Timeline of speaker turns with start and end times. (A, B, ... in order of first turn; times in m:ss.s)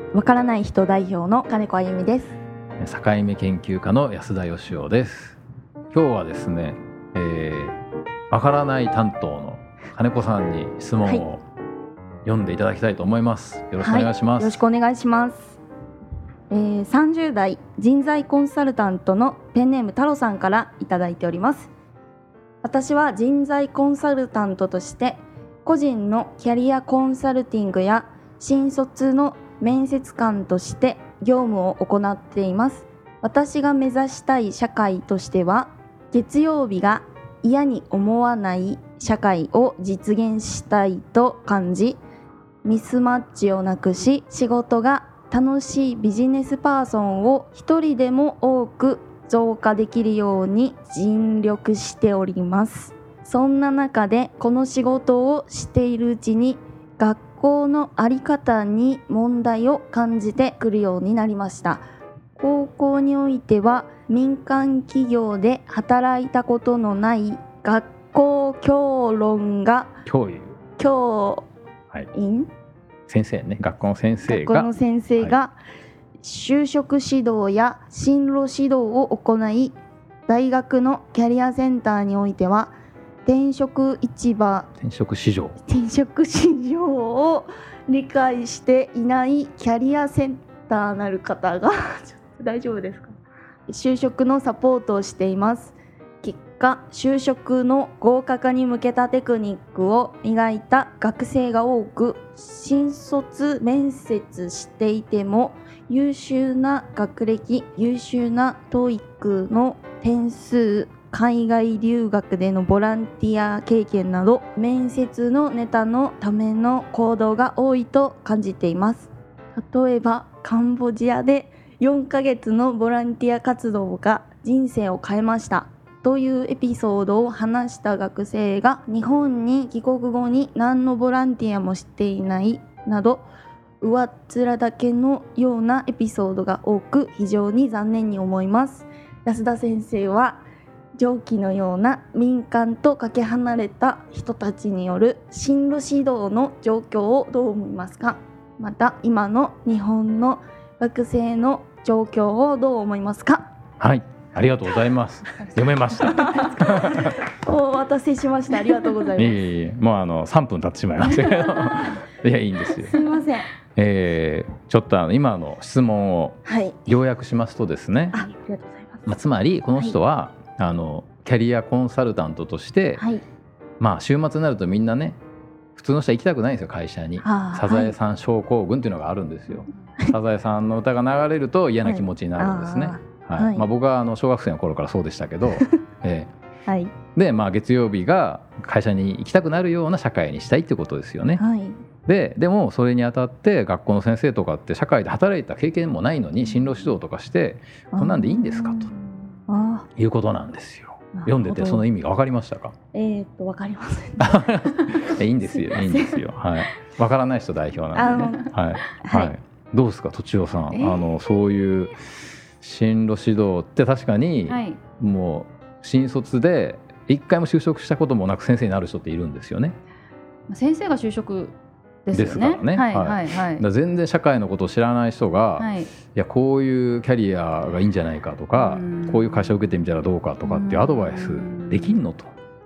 0:00.1-0:02.4 A
0:02.8-0:05.4 B
0:05.9-0:07.7 B
0:08.3-0:11.4 B
0:12.2-0:14.6 B
0:13.8-0:15.6 A
0:16.5-0:21.7 A
0:22.6-0:42.0 A
0:42.6-1:01.8 A
1:02.3-1:09.9 A
1:10.0-1:10.6 B
1:10.8-1:11.5 A
1:12.1-1:12.5 A
1:13.1-1:15.3 B
1:14.3-1:15.6 A
1:16.2-1:24.7 A
1:24.8-1:25.6 B
1:25.6-1:33.2 A
1:33.7-2:13.2 A
2:13.8-2:20.4 A
2:21.0-2:33.4 A
2:33.8-2:37.2 B
2:35.4-2:36.0 C
2:36.1-2:39.4 A
2:39.2-2:43.0 B
2:42.7-2:43.5 A
2:43.7-2:48.2 B
2:46.4-2:47.0 A
2:48.1-2:49.1 A
2:49.0-2:53.0 B
2:53.0-2:53.2 A
2:53.8-2:55.2 B
2:55.8-3:06.3 B
2:57.2-2:58.0 A
3:01.8-3:03.7 A
3:05.5-3:05.8 A
3:06.6-3:06.9 A
3:07.1-3:11.4 B
3:11.4-3:11.8 A
3:12.0-3:18.9 B
3:17.9-3:18.9 A
3:19.5-3:19.8 A
3:20.0-3:22.8 B
3:21.1-3:21.8 A
3:22.9-3:26.2 A
3:24.2-3:31.9 B
3:27.9-3:28.4 A
3:29.0-3:29.3 A
3:30.7-3:31.1 C
3:32.6-3:39.8 B
3:34.5-3:34.8 C
3:40.5-3:43.7 C
3:42.1-3:52.3 B
3:45.6-3:45.9 C
3:48.5-3:49.6 C
3:50.4-3:52.0 C